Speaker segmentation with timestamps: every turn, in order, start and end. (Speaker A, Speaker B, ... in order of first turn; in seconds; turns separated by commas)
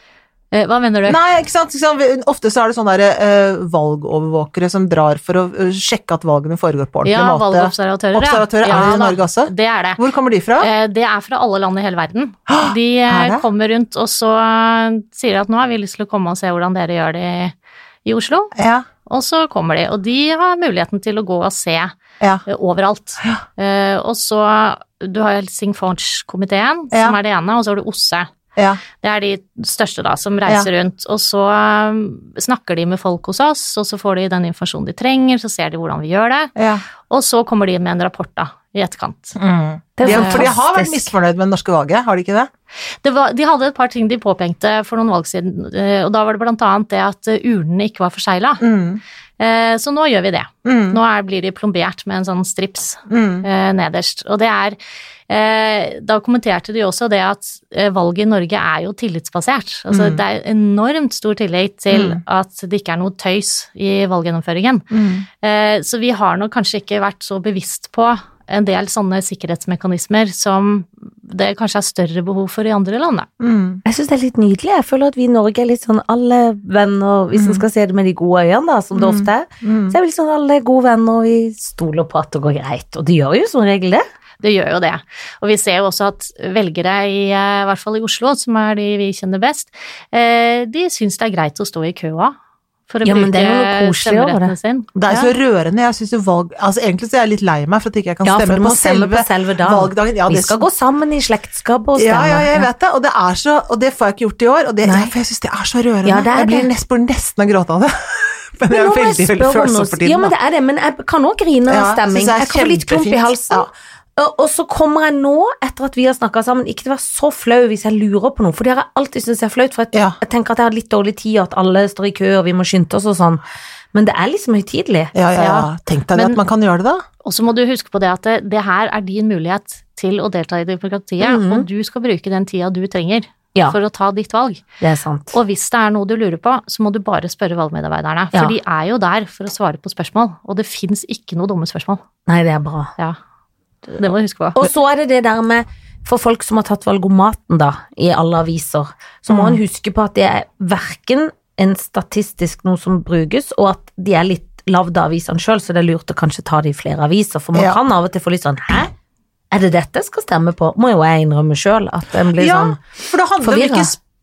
Speaker A: 0.5-1.2, Speaker B: 1.1-10.7, Speaker A: 7.0-10.0, Speaker A: 10.6-18.5, Speaker B: 12.5-13.4, Speaker B: 18.6-18.9, Speaker A: 19.1-21.9, Speaker A: 22.5-28.3, Speaker B: 28.6-28.8, Speaker A: 29.0-36.5, Speaker B: 36.6-36.8, Speaker A: 37.1-39.4, Speaker B: 39.4-42.5, Speaker C: 40.0-41.1, Speaker A: 40.0-40.5, Speaker A: 43.0-48.6, Speaker B: 48.6-49.0, Speaker A: 49.4-54.8, Speaker B: 50.6-51.0, Speaker B: 53.1-53.5, Speaker A: 55.3-64.9, Speaker B: 59.9-60.2, Speaker B: 61.9-62.2, Speaker B: 64.9-65.3, Speaker A: 65.4-73.3, Speaker B: 73.4-73.8, Speaker C: 73.8-84.0, Speaker B: 77.3-77.6, Speaker B: 78.9-80.0, Speaker A: 84.4-92.3, Speaker A: 92.9-95.3, Speaker C: 93.0-94.5, Speaker B: 95.0-100.6, Speaker C: 98.2-102.7, Speaker B: 102.0-110.3, Speaker C: 104.8-105.2, Speaker C: 106.0-106.7, Speaker C: 108.7-123.4, Speaker B: 111.7-113.7, Speaker B: 119.9-120.2, Speaker C: 123.9-125.1, Speaker B: 125.1-127.0, Speaker A: 125.4-126.4, Speaker A: 127.2-134.6, Speaker C: 131.2-131.7, Speaker C: 134.8-135.4, Speaker A: 135.3-142.0, Speaker C: 142.3-142.9, Speaker A: 143.9-144.6, Speaker C: 144.6-158.9, Speaker B: 149.3-149.6, Speaker B: 157.5-157.8, Speaker C: 159.5-162.8, Speaker B: 162.4-164.0, Speaker C: 163.4-163.9